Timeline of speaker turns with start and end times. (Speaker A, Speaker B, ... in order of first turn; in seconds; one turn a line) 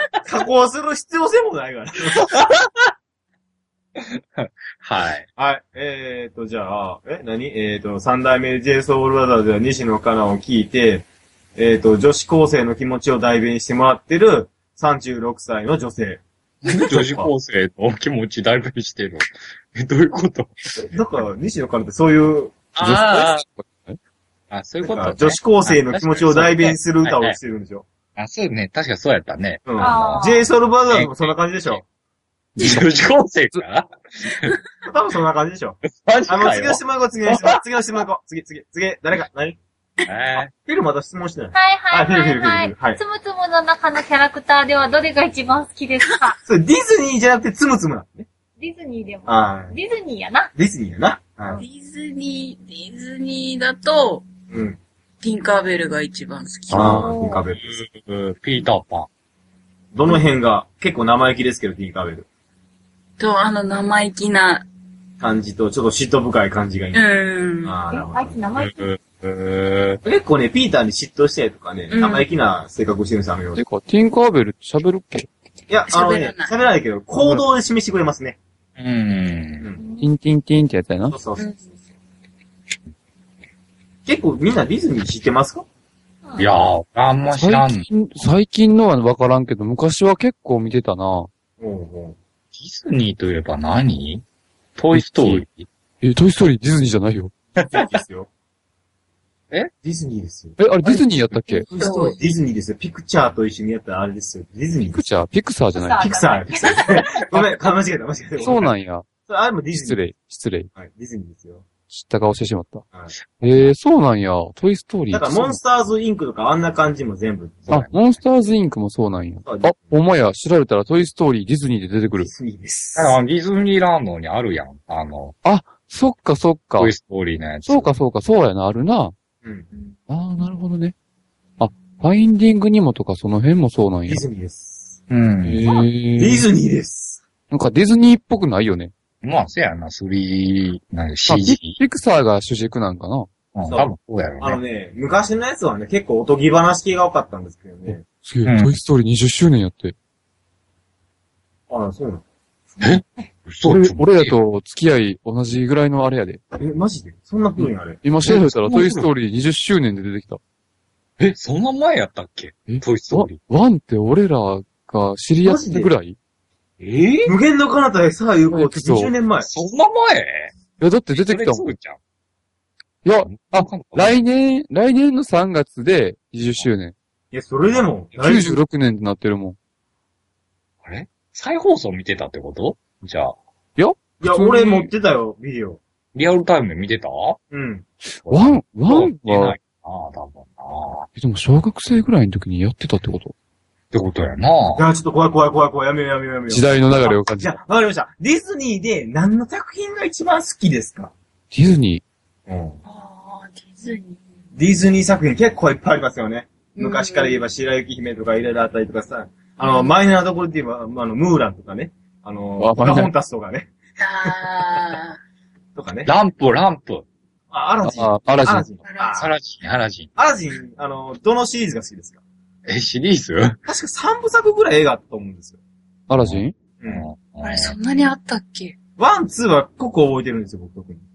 Speaker A: 0.2-2.3
Speaker B: 2.2-2.9
Speaker B: 4.0-5.3
Speaker A: 5.4-16.2
Speaker B: 16.6-20.8
Speaker A: 16.9-17.3
Speaker A: 20.9-22.6
Speaker B: 22.8-23.4
Speaker C: 22.8-24.0
Speaker B: 24.5-27.4
Speaker A: 24.8-27.9
Speaker B: 28.2-30.4
Speaker A: 29.7-31.8
Speaker D: 29.8-30.4
Speaker B: 30.9-31.8
Speaker C: 32.6-32.8
Speaker B: 32.6-34.6
Speaker A: 34.9-39.6
Speaker B: 35.9-37.6
Speaker B: 40.1-40.5
Speaker A: 40.6-43.0
Speaker D: 41.5-46.4
Speaker A: 46.5-48.3
Speaker D: 48.6-50.5
Speaker A: 49.3-49.8
Speaker A: 50.6-51.6
Speaker E: 51.6-54.3
Speaker A: 54.5-54.8
Speaker E: 55.2-57.1
Speaker A: 56.7-57.8
Speaker D: 56.8-57.5
Speaker B: 57.6-59.1
Speaker A: 59.9-62.3
Speaker E: 63.2-64.7
Speaker A: 65.2-67.0
Speaker E: 66.9-67.8
Speaker A: 67.6-68.4
Speaker D: 67.9-68.9
Speaker B: 68.6-70.0
Speaker A: 70.0-73.6
Speaker E: 71.9-72.3
Speaker C: 73.5-75.3
Speaker A: 75.7-78.4
Speaker E: 75.9-76.6
Speaker B: 78.8-79.7
Speaker D: 79.8-80.1
Speaker C: 80.0-81.2
Speaker A: 81.1-81.7
Speaker E: 81.4-81.7
Speaker A: 84.1-85.7
Speaker B: 86.4-87.9
Speaker C: 87.3-91.3
Speaker A: 91.6-92.2
Speaker B: 92.5-94.2
Speaker B: 94.8-95.7
Speaker C: 94.9-95.5
Speaker C: 96.0-97.3
Speaker B: 97.6-97.9
Speaker A: 97.6-98.3
Speaker A: 99.8-105.1
Speaker C: 100.6-101.7
Speaker E: 101.7-102.2
Speaker C: 104.9-106.1
Speaker D: 105.7-107.3
Speaker A: 106.0-108.7
Speaker C: 108.4-109.1
Speaker A: 109.3-110.0
Speaker C: 109.8-110.7
Speaker A: 110.8-111.7
Speaker C: 111.9-112.8
Speaker B: 113.1-113.7
Speaker C: 113.4-115.6
Speaker A: 115.1-117.9
Speaker C: 117.7-122.3
Speaker A: 119.5-120.0
Speaker A: 122.2-123.2
Speaker B: 123.0-125.4
Speaker C: 125.4-126.9
Speaker B: 126.8-127.9
Speaker C: 127.7-129.2
Speaker C: 130.1-130.9
Speaker C: 131.6-134.2
Speaker A: 134.1-135.0
Speaker B: 135.1-135.7
Speaker C: 135.4-136.5
Speaker A: 136.2-137.2
Speaker C: 137.5-138.9
Speaker B: 139.2-141.8
Speaker C: 141.3-143.3
Speaker B: 143.6-144.6
Speaker A: 143.7-148.1
Speaker C: 147.9-149.9
Speaker B: 148.4-148.7
Speaker A: 151.7-152.2
Speaker B: 152.8-154.4
Speaker C: 153.6-156.4
Speaker A: 156.6-158.0
Speaker C: 157.6-160.4
Speaker B: 158.2-159.1
Speaker B: 161.2-163.4
Speaker C: 162.7-166.2
Speaker A: 165.4-165.9
Speaker B: 166.8-167.3
Speaker A: 167.2-169.5
Speaker C: 168.5-169.1
Speaker B: 169.5-170.5
Speaker C: 170.8-171.7
Speaker B: 171.1-172.0
Speaker C: 173.1-176.9
Speaker B: 173.2-174.2
Speaker A: 177.3-178.6
Speaker C: 178.2-179.6
Speaker B: 180.8-183.3
Speaker C: 183.8-184.9
Speaker A: 184.2-185.8
Speaker B: 186.1-187.4
Speaker A: 187.5-187.8
Speaker C: 188.1-189.6
Speaker B: 188.3-191.1
Speaker C: 191.2-193.3
Speaker B: 193.9-194.8
Speaker A: 194.8-201.1
Speaker C: 196.5-197.6
Speaker C: 201.5-202.0
Speaker A: 202.5-202.8
Speaker E: 202.8-204.2
Speaker A: 204.6-213.7
Speaker E: 206.8-207.4
Speaker E: 209.6-209.9
Speaker C: 212.6-213.1
Speaker E: 214.0-215.2
Speaker A: 215.8-216.1
Speaker B: 216.1-217.1
Speaker A: 217.5-219.3
Speaker C: 217.8-218.7
Speaker E: 218.8-219.2
Speaker B: 219.1-220.1
Speaker A: 220.2-222.2
Speaker B: 222.7-223.6
Speaker A: 223.7-225.6
Speaker C: 226.1-226.5
Speaker B: 226.2-227.8
Speaker E: 227.4-228.8
Speaker A: 229.0-231.1